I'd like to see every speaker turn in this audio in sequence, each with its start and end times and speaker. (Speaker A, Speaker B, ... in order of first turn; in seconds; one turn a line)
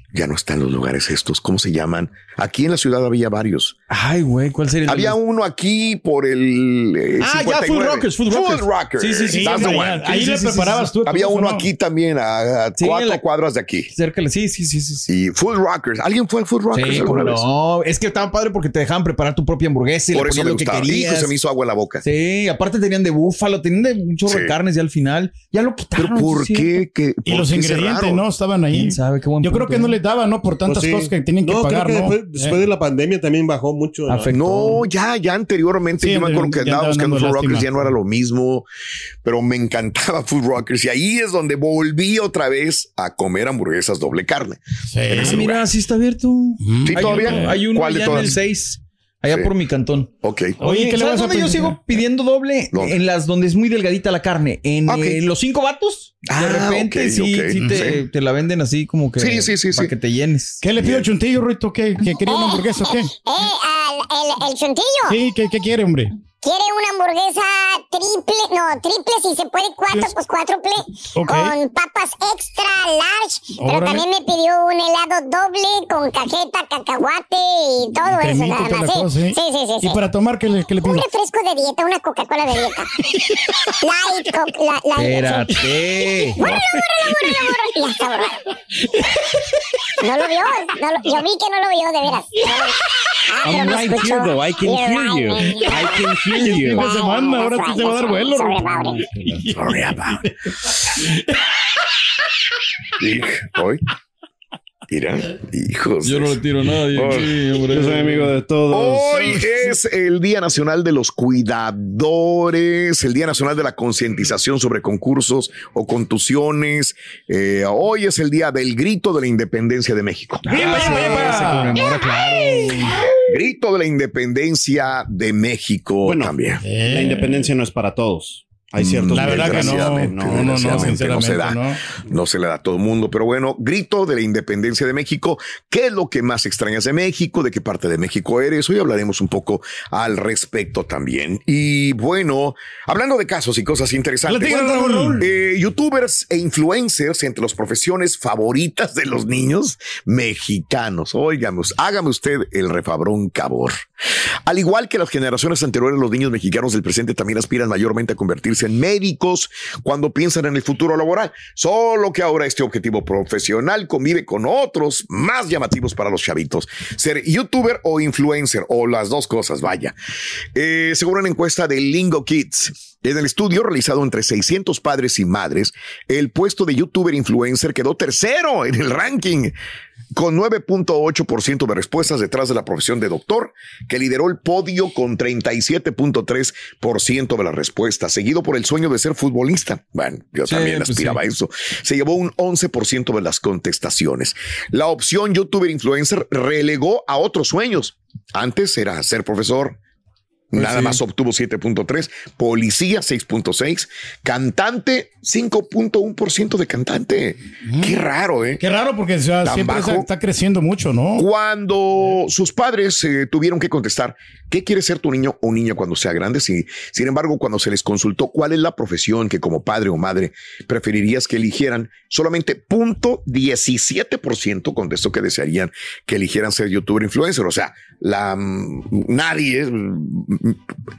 Speaker A: 0.1-3.8
Speaker B: 3.9-5.2
Speaker A: 4.9-10.1
Speaker B: 7.2-10.9
Speaker C: 9.3-11.7
Speaker A: 11.0-13.9
Speaker B: 12.8-13.2
Speaker B: 13.9-15.1
Speaker A: 15.1-17.4
Speaker B: 16.7-21.3
Speaker A: 20.1-22.0
Speaker B: 22.0-26.8
Speaker A: 24.2-24.5
Speaker A: 26.0-28.2
Speaker C: 27.2-32.6
Speaker B: 28.7-30.0
Speaker D: 30.6-34.4
Speaker B: 34.1-34.8
Speaker A: 34.3-38.6
Speaker C: 36.0-37.8
Speaker A: 39.2-45.6
Speaker C: 44.9-45.4
Speaker B: 45.2-60.6
Speaker C: 46.6-47.6
Speaker A: 46.8-48.4
Speaker C: 48.1-48.3
Speaker A: 50.2-50.6
Speaker C: 50.6-51.8
Speaker A: 52.7-53.0
Speaker A: 54.9-55.2
Speaker A: 56.3-58.0
Speaker C: 57.6-57.9
Speaker A: 59.2-59.9
Speaker C: 60.6-63.1
Speaker A: 60.8-61.0
Speaker E: 62.2-65.2
Speaker C: 65.1-66.1
Speaker E: 66.4-80.0
Speaker C: 71.1-71.5
Speaker C: 73.6-74.1
Speaker C: 78.0-81.0
Speaker E: 80.8-88.4
Speaker B: 85.0-86.4
Speaker C: 86.4-87.3
Speaker E: 90.0-99.1
Speaker F: 93.4-96.9
Speaker C: 96.2-99.7
Speaker A: 99.5-100.2
Speaker C: 101.0-101.3
Speaker A: 103.0-103.8
Speaker A: 104.9-106.4
Speaker B: 106.0-108.3
Speaker A: 106.9-107.4
Speaker F: 107.7-109.3
Speaker A: 108.7-121.5
Speaker C: 109.2-109.4
Speaker C: 120.5-121.8
Speaker B: 120.5-123.1
Speaker A: 123.1-126.6
Speaker F: 126.0-131.0
Speaker C: 126.6-127.4
Speaker A: 128.8-153.8
Speaker C: 129.1-131.8
Speaker C: 144.3-145.2
Speaker A: 154.4-169.9
Speaker A: 170.5-179.5
Speaker A: 180.1-199.8
Speaker B: 190.4-191.2
Speaker A: 200.5-208.6
Speaker B: 200.6-201.0
Speaker C: 207.7-208.0
Speaker C: 208.6-211.2
Speaker A: 209.4-210.1
Speaker A: 211.2-230.6